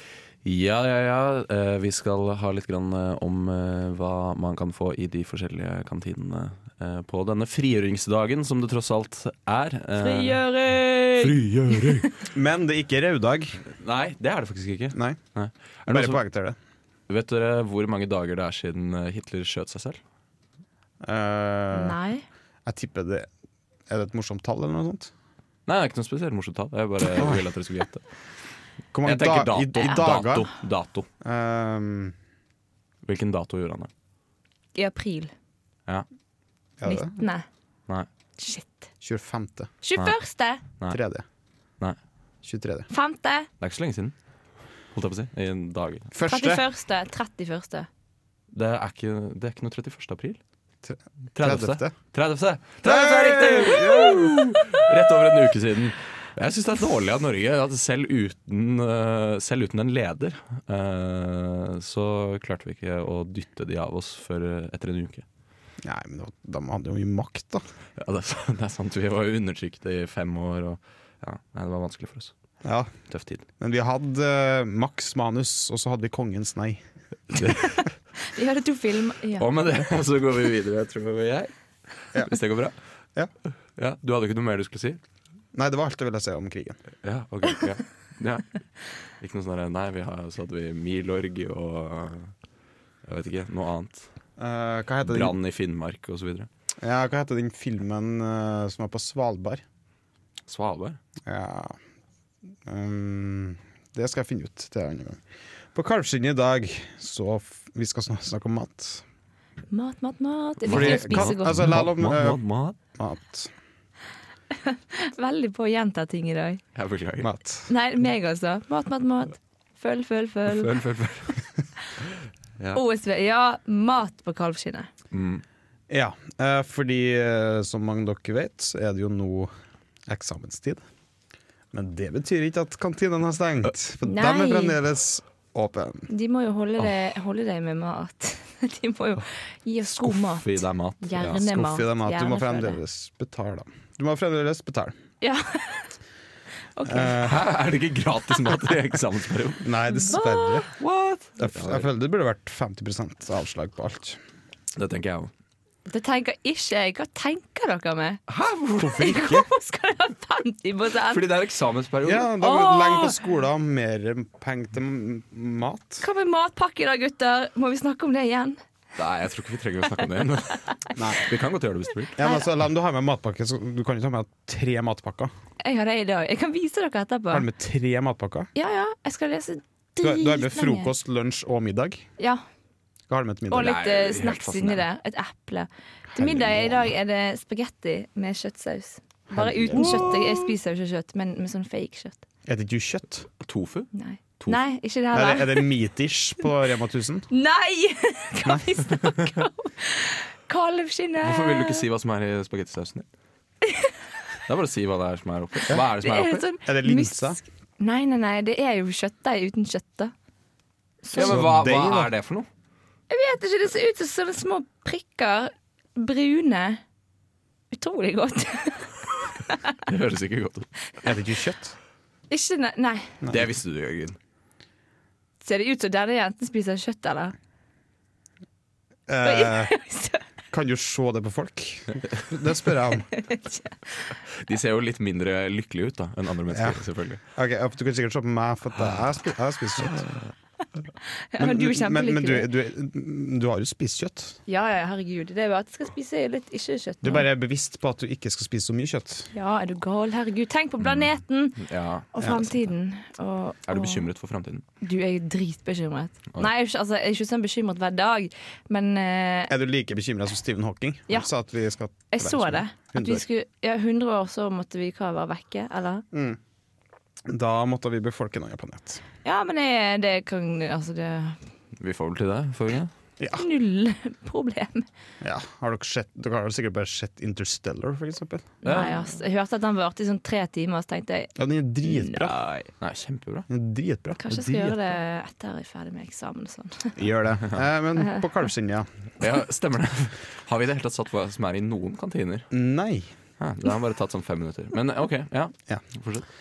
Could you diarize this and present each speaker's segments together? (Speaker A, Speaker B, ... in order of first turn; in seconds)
Speaker A: 0.4-10.4, 11.1-12.1, 13.8-16.2, 17.1-20.0, 25.7-28.0, 29.0-31.1, 33.0-33.9, 43.6-44.1, 44.9-46.1, 48.5-50.4, 51.3-65.2, 68.0-72.3, 73.1-73.4, 77.3-77.6, 79.4-82.8, 83.8-85.0, 87.0-88.5, 89.2-92.3, 93.0-94.1, 95.0-96.5, 100.5-101.0, 110.7-112.8, 116.7-117.3, 120.5-121.5, 125.1-125.4, 139.8-141.4, 147.2-151.8, 154.8-155.3, 158.3-159.3, 161.1-162.3, 168.9-172.2, 183.6-184.8, 189.7-190.5, 193.4-194.6, 201.2-203.1, 204.5-206.4, 211.1-212.5, 219.8-220.7, 223.3-224.2, 234.4-237.2, 251.6-252.5, 253.7-254.6, 271.8-272.9, 278.6-279.1, 282.3-283.5, 284.3-285.0, 289.2-292.5, 293.4-296.3
Speaker B: 10.0-12.1, 21.7-22.2, 34.7-35.3, 36.8-37.5, 38.4-38.9, 39.8-40.6, 42.9-43.5, 46.2-47.9, 78.2-79.5, 109.7-111.6, 114.6-116.6, 117.7-120.7, 122.7-124.9, 134.0-134.8, 136.1-142.8, 145.2-145.9, 146.7-147.2, 155.9-158.2, 158.9-161.3, 162.4-163.2, 166.0-168.6, 175.6-177.5, 178.5-180.9, 183.5-192.2, 193.9-195.7, 197.3-201.8, 203.6-203.9, 206.0-210.1, 211.0-211.4, 213.1-216.8, 217.7-219.6, 222.3-223.1, 225.4-227.3, 229.2-230.2, 233.1-234.1, 241.3-242.5, 244.5-247.2, 249.3-254.1, 254.8-259.5, 262.1-266.0, 269.2-271.4, 273.4-274.9, 278.6-281.3, 281.9-282.2, 284.2-287.0
Speaker C: 12.3-13.6, 14.9-15.2, 15.9-16.6, 21.0-22.0, 22.6-23.3, 23.9-25.1, 27.0-27.4, 28.9-30.5, 31.2-32.1, 36.8-37.2, 39.0-39.7, 40.9-41.2, 42.4-42.9, 46.1-46.6, 50.8-51.9, 52.8-54.5, 65.8-67.7, 72.6-72.9, 73.6-77.5, 85.5-86.8, 94.4-95.4, 96.8-99.6, 101.2-101.8, 102.7-105.2, 105.7-109.0, 110.7-113.5, 117.2-117.7, 125.9-129.5, 130.1-130.8, 131.7-136.1, 141.3-144.9, 146.8-147.4, 149.6-150.7, 151.4-154.2, 158.8-159.4, 162.0-166.1, 170.9-171.3, 172.2-175.3, 177.3-178.5, 180.0-182.1, 183.1-183.8, 186.1-186.9, 189.3-190.1, 192.4-193.3, 195.1-197.3, 206.7-207.4, 211.2-212.1, 221.0-221.8, 223.2-223.5, 229.1-229.7, 230.5-233.1, 236.5-236.8, 237.3-240.2, 241.4-244.4, 247.0-249.3, 259.5-263.2, 266.1-266.4, 267.2-269.0, 273.2-273.4, 275.2-278.5, 281.4-282.4, 283.5-284.2, 287.0-288.9, 292.5-293.1